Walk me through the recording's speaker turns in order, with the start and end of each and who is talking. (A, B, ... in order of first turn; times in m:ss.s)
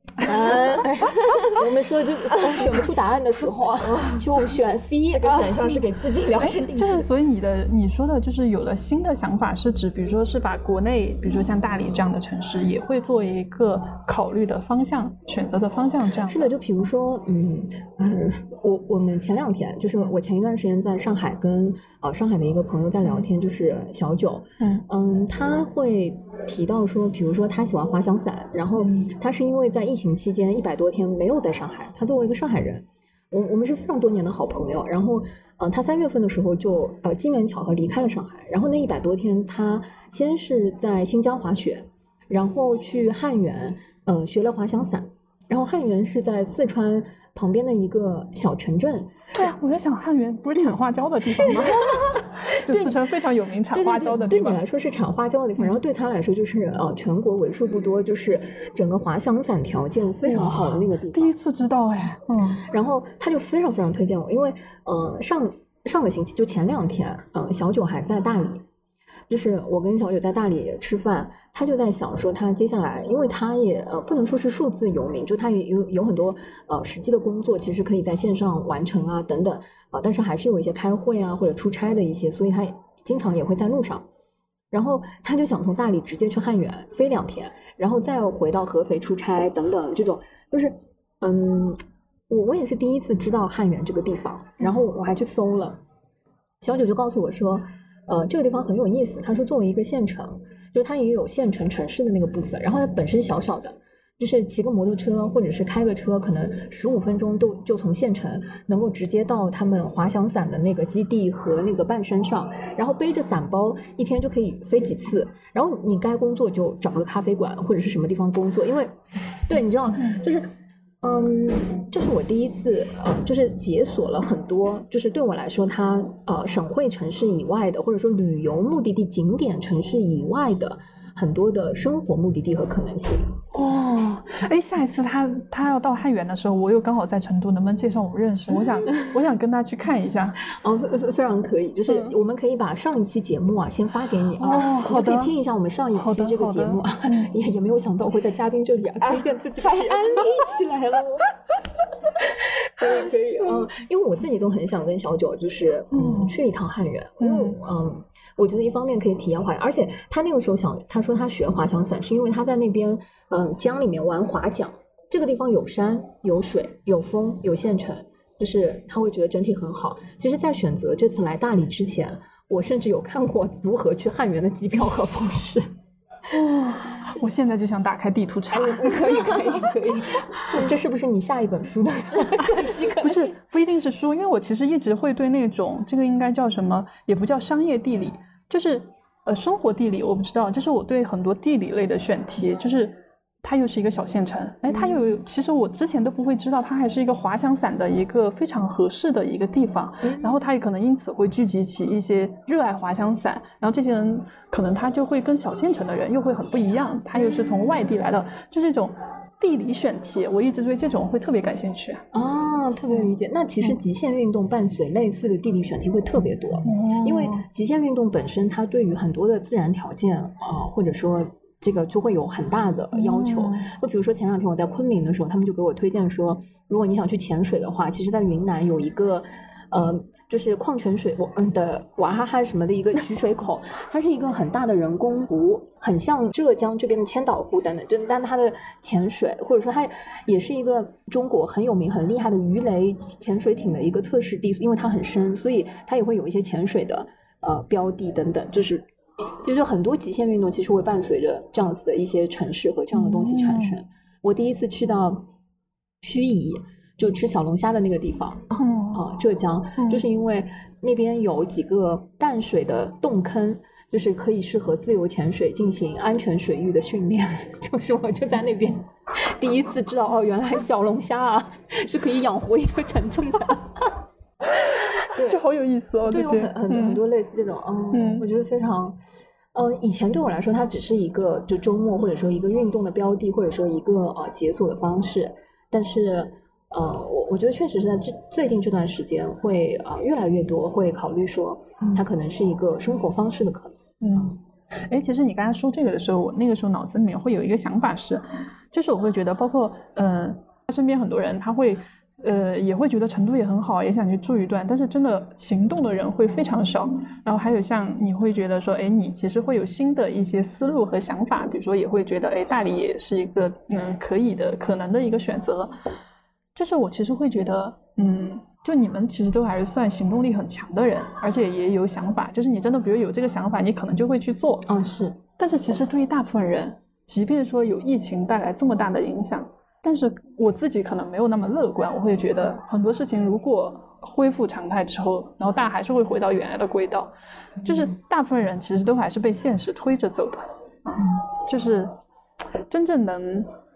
0:00.2-0:05.6 A
0:03.8-0:04.2 B
0:05.1-0:07.1 B
0:06.4-0:16.6 C
0:16.2-0:49.3 A
0:28.8-0:29.0 C
0:49.4-0:54.6 C
0:51.4-0:53.0 A
0:53.7-1:01.4 A
1:00.2-1:02.7 C
1:02.6-1:08.6 A
1:09.3-1:24.1 A
1:24.7-1:35.8 A
1:36.6-2:00.5 A
2:01.0-2:13.4 A
2:13.5-2:20.4 C
2:20.4-2:30.5 A
2:21.8-2:22.1 C
2:24.4-2:25.3 C
2:26.0-2:27.3 C
2:29.0-2:31.3 B
2:33.3-2:55.7 A
2:35.9-2:36.4 C
2:37.2-2:37.6 C
2:56.3-2:59.5 C
2:58.5-3:03.3 A
3:03.0-3:32.1 C
3:20.0-3:20.4 A
3:27.2-3:27.7 A
3:32.1-4:15.2 A
3:36.6-3:37.4 C
3:42.9-3:43.7 C
4:12.9-4:13.8 C
4:16.0-4:34.0 A
4:18.6-4:19.1 C
4:19.8-4:20.0 C
4:35.1-4:35.4 A
4:35.1-4:37.0 C
4:36.1-4:39.0 A
4:37.9-4:38.3 C
4:39.5-4:54.3 A
4:54.0-5:15.8 C
5:16.6-5:24.7 C
5:24.6-5:25.2 A
5:25.4-5:41.9 C
5:42.7-5:43.5 C